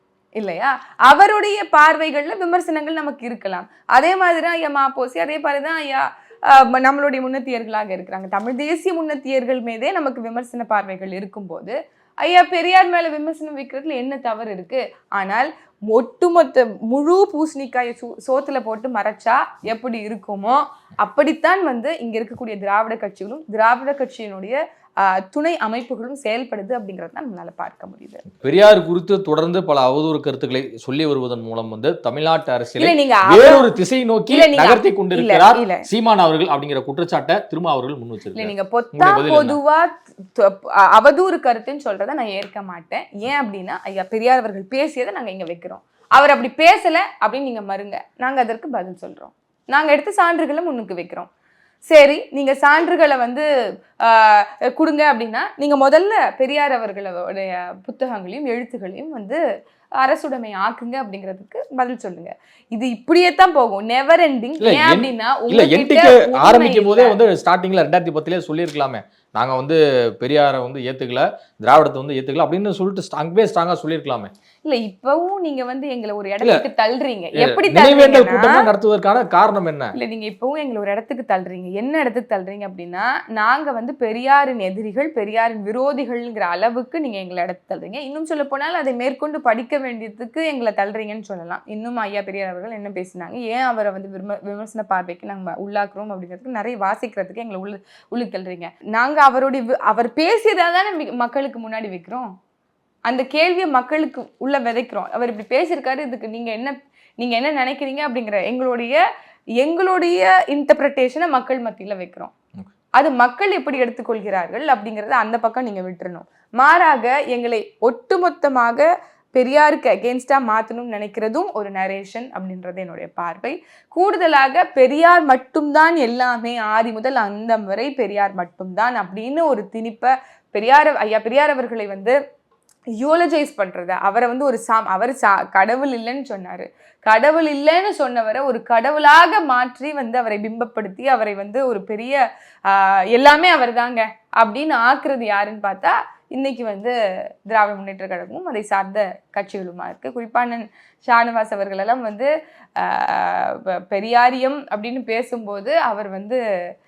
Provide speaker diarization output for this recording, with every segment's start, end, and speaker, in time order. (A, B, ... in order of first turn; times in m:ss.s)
0:00.4-0:28.2 A
0:28.3-0:39.6 B
0:32.8-0:33.7 A
0:34.3-0:35.9 A
0:38.3-0:51.3 A
0:51.9-0:53.5 A
0:54.0-0:59.4 A
1:00.0-1:07.1 A
1:04.6-1:14.3 B
1:14.6-1:18.7 A
1:17.4-1:19.9 B
1:19.9-1:42.3 A
1:43.1-1:49.0 A
1:49.6-1:52.3 A
1:53.0-2:12.2 A
2:13.0-2:26.9 A
2:27.5-2:36.4 A